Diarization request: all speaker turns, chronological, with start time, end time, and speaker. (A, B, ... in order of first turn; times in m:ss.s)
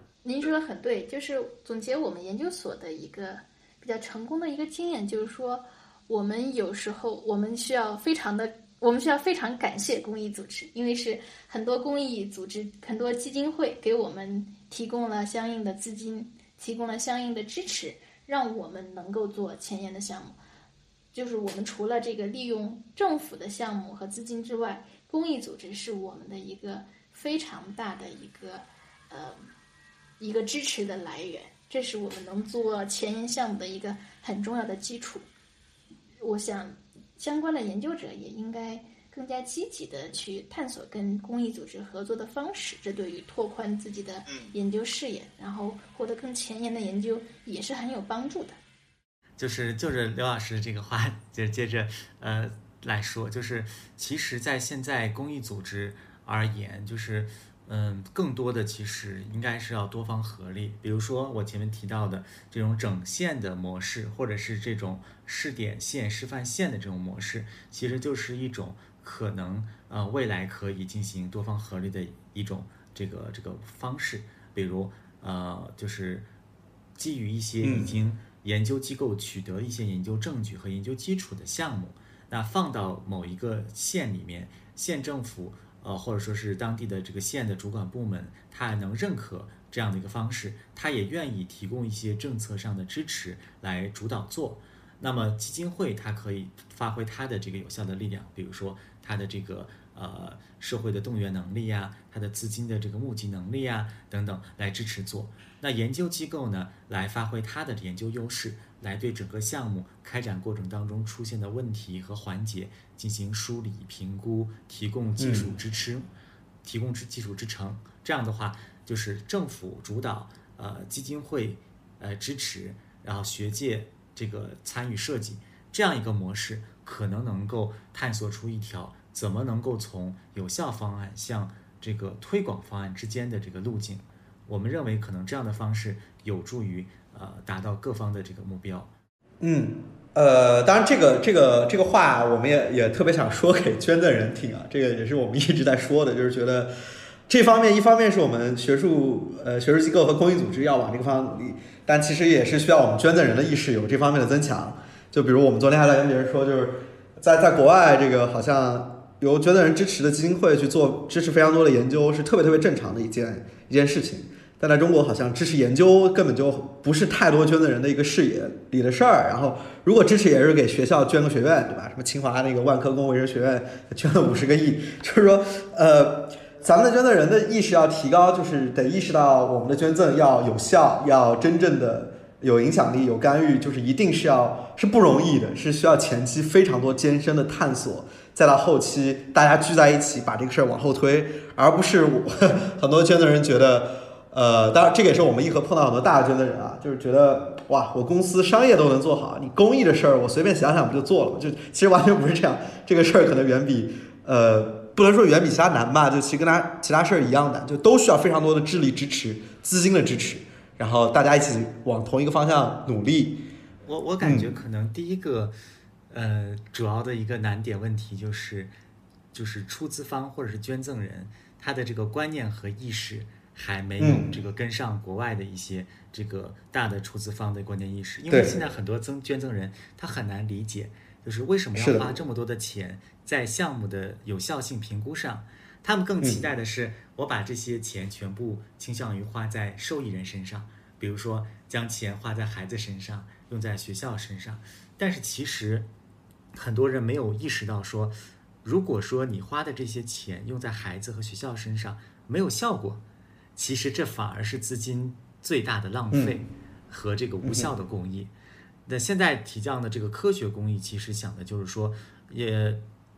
0:00.2-0:20.4 A
0:21.1-0:29.4 A
0:30.2-0:35.3 A
0:36.2-0:48.6 A
0:49.4-1:16.3 B
1:17.0-1:56.1 B
1:17.6-1:18.0 C
1:55.2-1:55.5 C
1:56.6-2:18.9 B
2:19.4-2:26.7 C
2:27.3-3:33.4 C
3:33.8-3:35.5 B
3:34.2-3:34.5 C
3:36.1-3:38.7 B
3:39.3-4:05.9 B
3:44.0-3:44.3 C
3:48.3-3:48.6 C
3:51.7-3:52.1 C
3:56.2-3:56.5 C
4:06.5-4:13.0 B
4:13.6-4:18.3 B
4:16.1-4:16.4 C
4:17.4-4:17.7 C
4:18.8-4:22.8 B